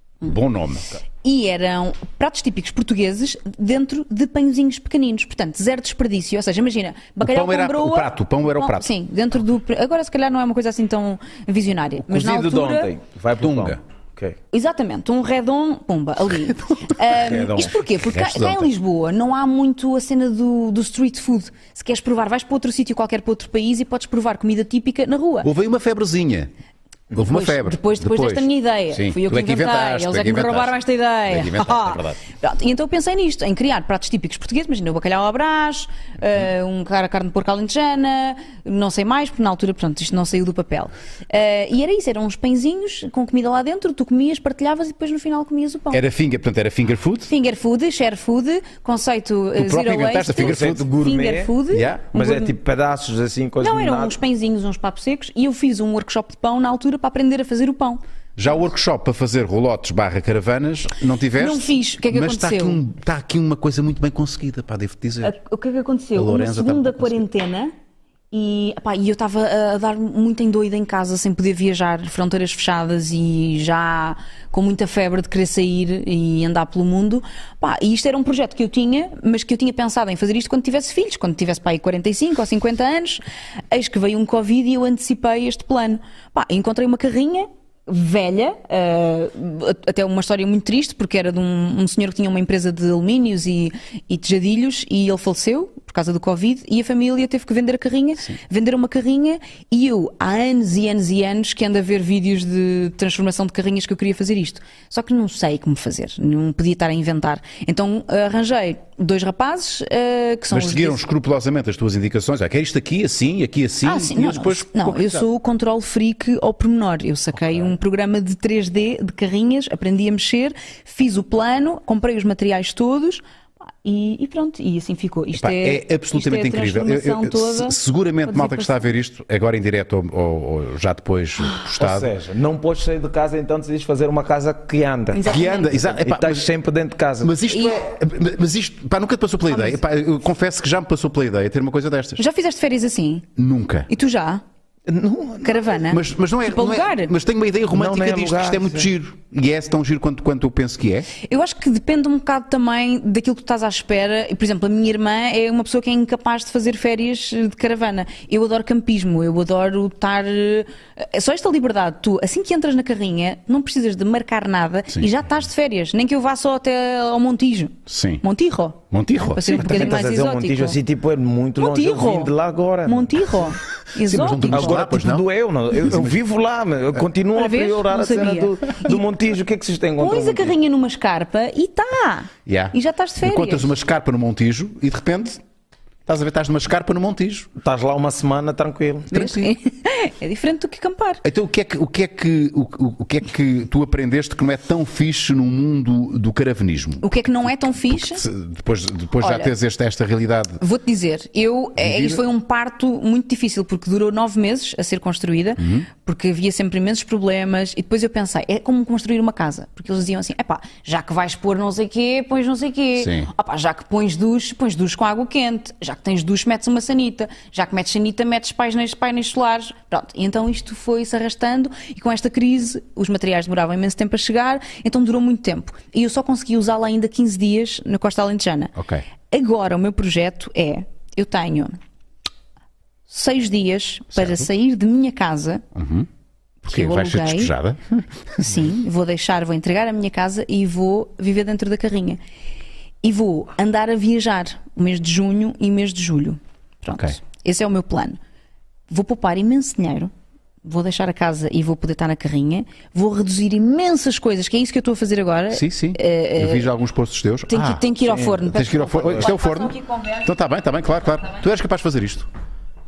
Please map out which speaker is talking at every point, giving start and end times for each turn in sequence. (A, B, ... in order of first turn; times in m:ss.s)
0:00.2-0:01.0 A
0:01.2-0:12.9 B
0:07.2-0:08.9 A
0:12.0-0:14.4 C
0:13.4-0:13.8 A
0:14.5-0:25.5 B
0:17.1-0:17.7 C
0:18.0-0:18.7 A
0:25.4-0:26.5 A
0:27.1-0:32.2 A
0:27.2-0:46.0 B
0:45.9-0:47.3 A
0:47.3-0:52.5 B
0:49.6-0:50.8 A
0:50.3-0:51.5 C
0:51.7-0:52.0 A
0:52.1-0:54.2 C
0:53.6-0:58.0 B
0:58.4-1:05.3 A
1:01.4-1:02.8 B
1:05.2-1:07.7 B
1:06.1-1:07.2 A
1:08.3-1:51.0 B
1:50.5-1:55.2 A
1:53.8-2:03.2 B
2:03.8-2:08.8 B
2:05.4-2:12.1 A
2:11.8-2:17.4 C
2:15.1-2:15.7 B
2:15.2-2:16.5 A
2:17.2-2:22.2 A
2:17.5-2:17.7 B
2:19.5-2:19.8 B
2:22.2-2:23.2 B
2:23.4-2:23.9 A
2:23.9-2:24.4 B
2:24.9-2:25.6 C
2:25.4-2:27.1 B
2:25.9-2:31.1 A
2:27.7-2:28.9 C
2:31.2-2:50.8 B
2:47.9-2:48.2 A
2:48.9-2:49.6 A
2:49.5-2:53.3 C
2:51.6-2:52.3 B
2:52.8-2:54.8 B
2:54.0-2:55.3 A
2:54.5-3:00.5 C
2:55.8-2:56.2 A
2:57.3-2:59.0 B
3:00.0-3:03.7 B
3:02.4-3:05.4 A
3:06.0-3:07.5 A
3:07.6-3:09.3 C
3:09.1-3:11.2 B
3:11.2-3:20.6 A
3:17.0-3:18.2 B
3:19.2-3:19.5 B
3:20.6-3:48.7 B
3:21.8-3:22.2 A
3:25.6-3:25.9 A
3:33.0-3:33.3 A
3:48.8-3:49.0 A
3:49.3-3:51.8 B
3:53.1-3:55.6 B
3:54.1-3:54.5 A
3:55.7-3:56.1 A
3:56.6-3:57.5 B
3:56.6-3:58.6 A
3:58.4-4:02.2 B
4:03.0-4:08.2 B
4:08.9-4:10.1 B
4:10.6-4:16.7 B
4:15.5-4:17.8 A
4:17.5-4:20.2 B
4:18.1-4:18.4 C
4:18.5-4:22.3 A